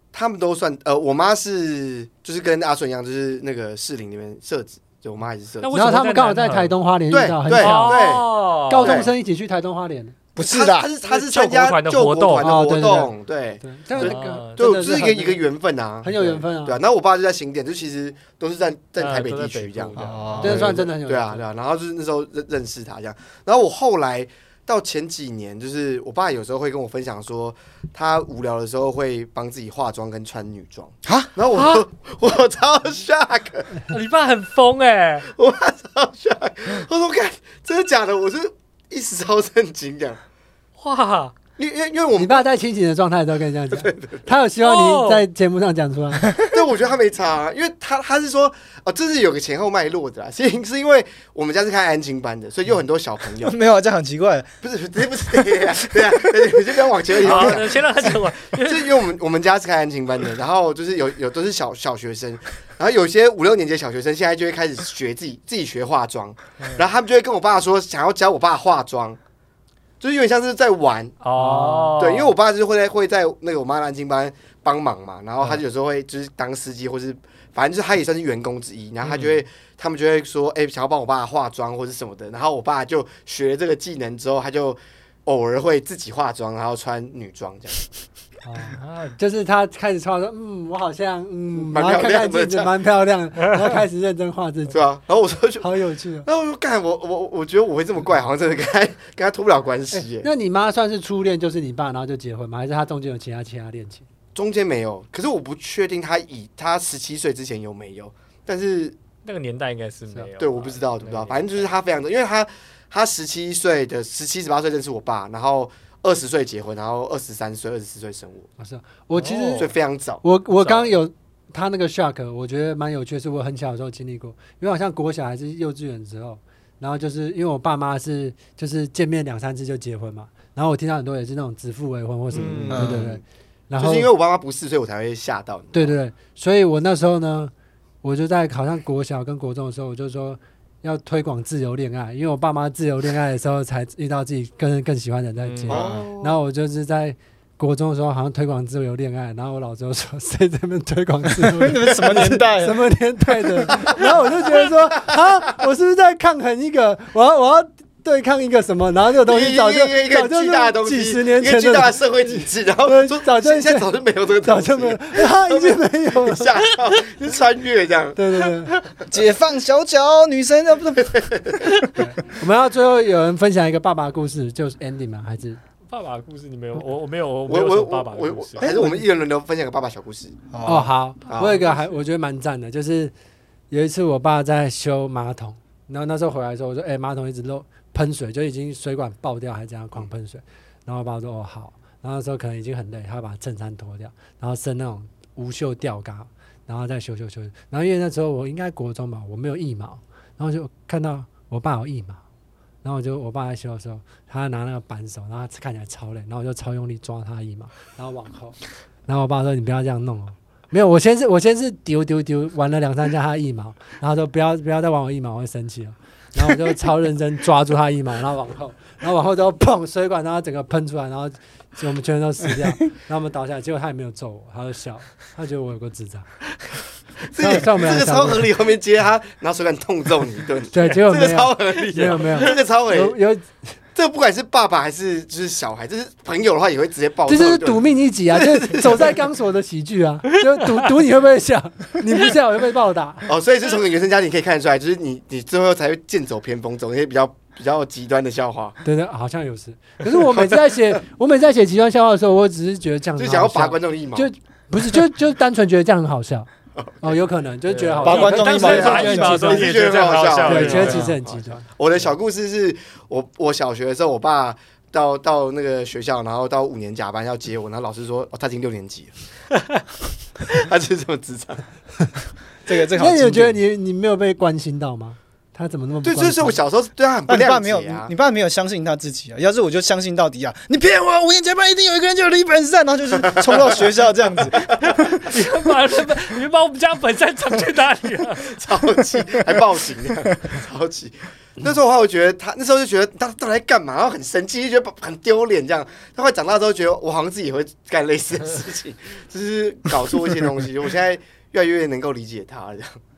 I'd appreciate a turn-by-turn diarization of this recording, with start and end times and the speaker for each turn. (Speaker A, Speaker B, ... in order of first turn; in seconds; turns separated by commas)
Speaker A: 0.1-5.7, Speaker B: 5.6-6.7, Speaker C: 5.7-10.1, Speaker A: 7.1-8.3, Speaker B: 7.6-9.1, Speaker A: 8.8-9.1, Speaker D: 10.4-10.9, Speaker A: 10.4-33.9, Speaker B: 11.0-13.1, Speaker C: 12.4-15.4, Speaker B: 14.0-14.6, Speaker C: 16.0-16.8, Speaker B: 19.0-20.7, Speaker D: 19.9-20.8, Speaker C: 20.4-21.4, Speaker D: 31.1-31.3, Speaker B: 31.5-31.9, Speaker B: 33.9-35.3, Speaker A: 35.3-40.2, Speaker B: 40.8-41.3, Speaker A: 41.6-42.5, Speaker C: 42.1-46.3, Speaker A: 43.7-44.2, Speaker B: 44.6-45.2, Speaker A: 46.4-53.5, Speaker D: 53.4-54.5, Speaker A: 54.6-69.2, Speaker D: 55.3-56.6, Speaker B: 57.1-59.0, Speaker A: 70.0-71.2, Speaker B: 71.2-72.3, Speaker C: 71.3-72.0, Speaker A: 72.0-87.9, Speaker B: 79.0-79.4, Speaker C: 88.4-94.8, Speaker B: 88.7-89.2, Speaker A: 91.5-92.7, Speaker A: 94.7-95.7, Speaker C: 95.6-96.3, Speaker A: 96.2-100.3, Speaker C: 99.9-104.1, Speaker A: 104.3-109.0, Speaker B: 109.2-111.7, Speaker A: 110.4-118.5, Speaker C: 118.6-119.7, Speaker B: 119.2-119.7, Speaker A: 119.5-120.2, Speaker C: 120.2-134.1, Speaker B: 120.6-120.9, Speaker B: 132.3-133.0, Speaker A: 132.3-133.2, Speaker D: 132.7-133.1, Speaker A: 133.8-135.9, Speaker C: 135.7-137.5, Speaker C: 138.0-163.9, Speaker B: 145.4-146.1, Speaker A: 145.7-146.4, Speaker D: 151.3-152.8, Speaker A: 151.9-152.2, Speaker A: 154.6-155.6, Speaker A: 159.3-168.5, Speaker C: 164.4-166.5, Speaker C: 168.2-168.7, Speaker D: 169.1-171.4, Speaker A: 171.0-171.7, Speaker C: 171.9-175.6, Speaker B: 175.9-178.7, Speaker A: 177.4-180.4, Speaker C: 178.6-179.0, Speaker D: 180.5-180.9, Speaker C: 180.6-183.1, Speaker A: 181.3-181.6, Speaker B: 181.3-182.0, Speaker C: 183.7-202.2, Speaker C: 202.8-226.3, Speaker A: 227.3-233.2, Speaker C: 227.4-228.5, Speaker C: 230.7-233.7, Speaker B: 232.0-232.3, Speaker A: 233.9-239.2, Speaker C: 237.3-243.3, Speaker A: 243.3-248.8, Speaker C: 248.8-256.5, Speaker A: 253.2-254.3, Speaker A: 256.8-257.1, Speaker C: 257.0-259.7, Speaker B: 257.7-261.1, Speaker D: 258.0-259.7, Speaker A: 258.5-269.2, Speaker C: 260.4-261.6, Speaker A: 270.4-271.6, Speaker D: 272.7-273.6, Speaker C: 272.9-276.6, Speaker A: 276.0-278.1, Speaker D: 277.3-285.3, Speaker A: 284.6-284.9, Speaker B: 285.1-288.6, Speaker A: 288.4-303.0